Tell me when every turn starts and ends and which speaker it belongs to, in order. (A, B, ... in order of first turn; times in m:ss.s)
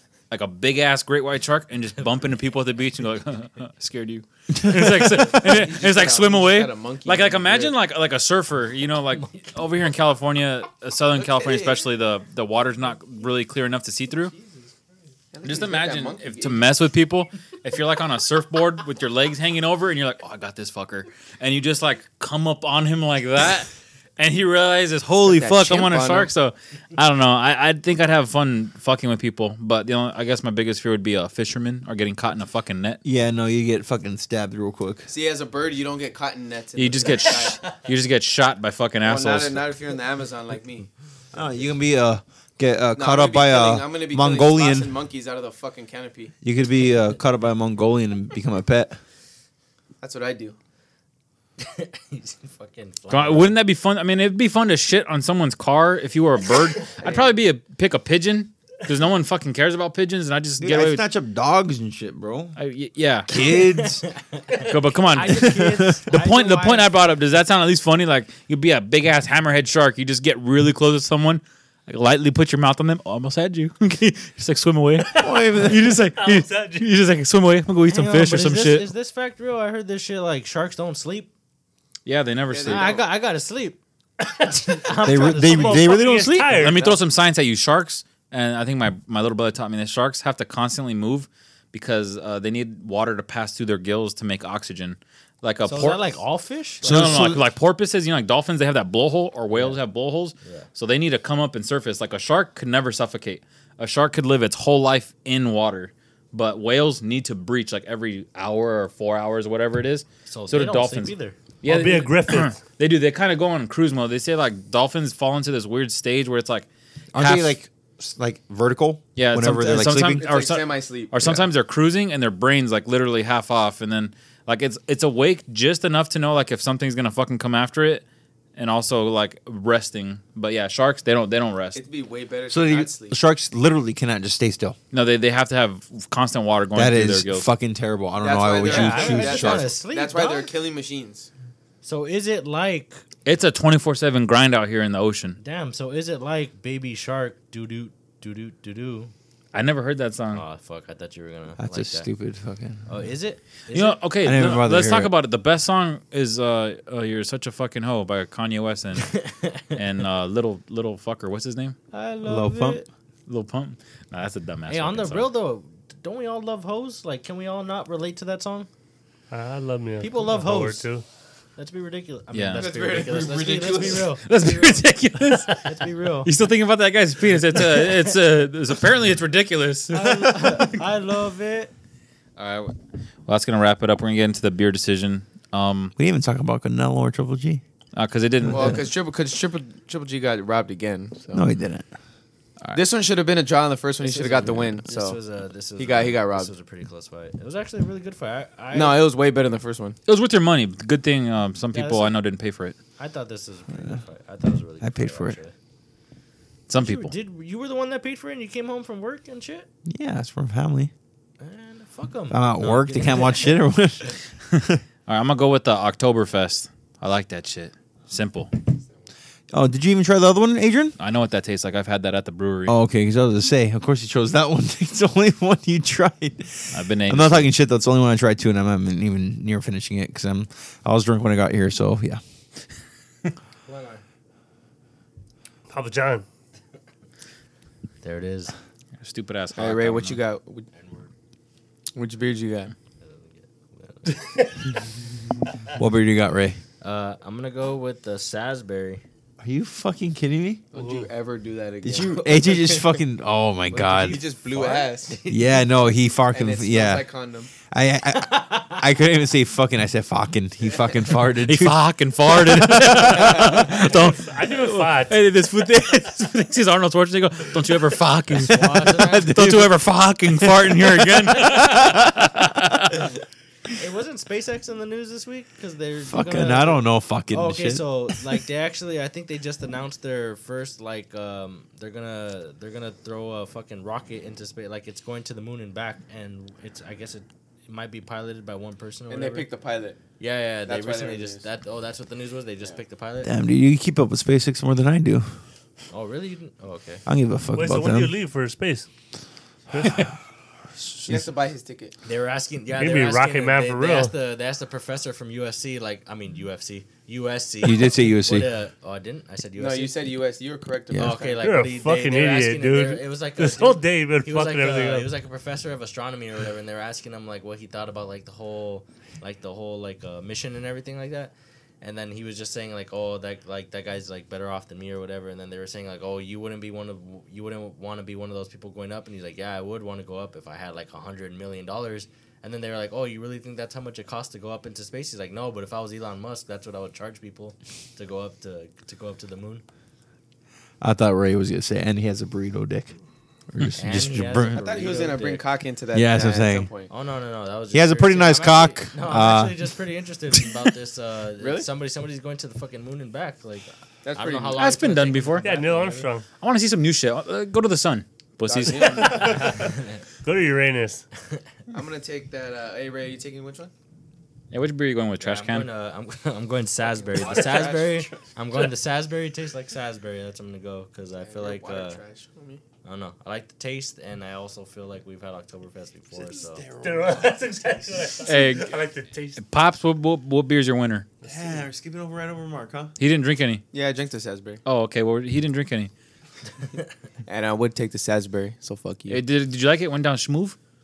0:00.3-0:14.3 A
0:04.5-0:05.3 B
0:05.2-0:07.8 C
0:11.1-0:11.8 C
0:15.3-0:16.6 C
0:15.4-0:33.0 A
0:25.2-0:26.3 C
0:33.0-0:35.1 B
0:35.1-0:37.6 C
0:36.8-0:39.7 A
0:39.0-0:41.4 C
0:41.3-0:44.9 B
0:42.9-0:46.3 C
0:46.4-0:49.0 B
0:50.0-0:50.6 C
0:51.6-0:53.5 D
0:53.1-1:01.0 A
0:57.0-0:57.4 C
1:00.6-1:02.6 B
1:02.6-1:03.3 A
1:03.2-1:04.0 B
1:03.4-1:06.9 D
1:04.7-1:18.9 A
1:05.3-1:06.0 B
1:15.2-1:15.9 B
1:16.1-1:16.9 E
1:17.9-1:21.3 D
1:22.0-1:22.9 A
1:22.5-1:23.0 C
1:22.6-1:23.8 D
1:24.2-1:24.8 E
1:24.4-1:26.0 D
1:25.0-1:26.8 B
1:25.4-1:26.8 E
1:26.6-1:36.1 A
1:26.7-1:27.0 C
1:35.6-1:37.3 D
1:36.8-1:37.4 B
1:36.8-1:57.6 A
1:50.3-1:51.3 D
1:51.6-1:52.6 E
1:57.1-2:00.2 B
1:59.2-2:08.0 A
2:00.1-2:01.2 C
2:01.2-2:01.5 B
2:08.6-2:11.8 A
2:11.7-2:13.2 C
2:12.5-2:14.8 B
2:14.9-2:17.5 A
2:16.7-2:19.7 B
2:18.2-2:21.3 C
2:18.6-2:20.5 D
2:21.8-2:23.0 D
2:23.2-2:25.4 A
2:25.4-2:29.1 D
2:29.5-2:30.4 A
2:30.3-2:32.1 D
2:31.6-2:32.9 B
2:32.9-2:34.0 D
2:33.7-2:39.2 A
2:34.2-2:35.1 B
2:39.1-2:39.6 D
2:39.7-2:41.8 A
2:41.9-2:42.8 D
2:42.2-2:42.8 B
2:43.3-2:45.3 A
2:44.7-2:48.7 D
2:49.3-2:51.0 E
2:50.0-2:50.9 D
2:51.6-2:54.8 D
2:52.3-2:52.7 A
2:52.5-2:54.2 C
2:54.2-2:55.6 A
2:55.3-2:55.7 E
2:55.5-2:56.3 D
2:56.2-3:00.8 A
2:59.9-3:01.7 D
3:02.4-3:02.7 A
3:03.3-3:05.9 A
3:06.0-3:07.6 B
3:07.9-3:08.9 A
3:08.5-3:11.5 C
3:08.5-3:08.8 B
3:11.3-3:11.8 B
3:12.7-3:15.2 C
3:14.0-3:19.0 D
3:15.8-3:16.5 C
3:18.7-3:20.0 C
3:20.1-3:22.8 A
3:21.7-3:22.1 D
3:23.0-3:25.5 D
3:24.8-3:25.4 B
3:26.7-3:27.1 A
3:26.8-3:29.7 D
3:29.8-3:30.9 B
3:31.4-3:33.7 D
3:32.3-3:34.8 B
3:35.1-3:38.5 A
3:39.5-3:41.0 B
3:41.0-3:42.8 A
3:42.7-3:52.2 B
3:46.7-3:47.5 A
3:53.6-3:54.0 D
3:55.7-3:56.2 E
3:58.0-3:58.5 D
3:59.0-4:00.2 A
3:59.5-4:00.7 C
4:00.7-4:01.1 D
4:01.9-4:02.7 C
4:03.0-4:04.5 D
4:04.1-4:04.5 E
4:05.7-4:06.6 B
4:06.8-4:09.0 D
4:09.4-4:10.6 B
4:10.7-4:12.2 C
4:10.8-4:11.0 E
4:11.8-4:14.2 B
4:12.1-4:13.0 D
4:13.7-4:15.2 C
4:14.5-4:15.5 D
4:15.3-4:17.0 B
4:16.3-4:17.5 C
4:17.7-4:23.6 B
4:18.1-4:18.8 D
4:21.4-4:32.9 A
4:23.7-4:25.2 E
4:28.4-4:29.3 D
4:28.5-4:32.6 B
4:33.8-4:49.5 D
4:36.1-4:38.3 B
4:49.1-4:50.0 C
4:50.2-4:53.3 D
4:50.6-4:51.5 C
4:53.2-4:55.3 B
4:55.9-4:57.0 D
4:57.0-4:58.1 B
4:57.5-4:58.9 E
4:59.7-5:00.0 E
5:01.1-5:01.9 C
5:02.0-5:10.0 D
5:02.8-5:04.1 E
5:07.6-5:08.5 B
5:09.6-5:11.5 C
5:10.9-5:11.2 B
5:10.9-5:39.6 D
5:11.4-5:15.1 E
5:40.8-5:42.9 B
5:43.5-5:45.0 B
5:43.8-5:45.4 D
5:44.5-5:46.9 C
5:45.9-5:46.7 B
5:46.9-5:56.1 D
5:47.7-5:49.7 B
5:51.4-5:51.7 C
5:54.0-5:54.7 C
5:54.6-5:55.5 A
5:55.4-5:56.2 E
5:56.4-5:59.4 A
5:58.5-5:59.6 C
5:59.0-5:59.7 E
6:00.2-6:01.0 E
6:01.7-6:03.7 C
6:04.5-6:05.7 A
6:05.2-6:12.0 D
6:07.0-6:08.1 C
6:11.2-6:12.6 C
6:12.8-6:16.6 D
6:16.1-6:18.1 B
6:16.8-6:19.4 E
6:18.2-6:18.8 A
6:19.4-6:21.1 A
6:21.2-6:22.9 B
6:23.0-6:23.6 A
6:23.7-6:24.6 C
6:24.6-6:25.9 A
6:27.2-6:29.2 C
6:29.1-6:30.6 A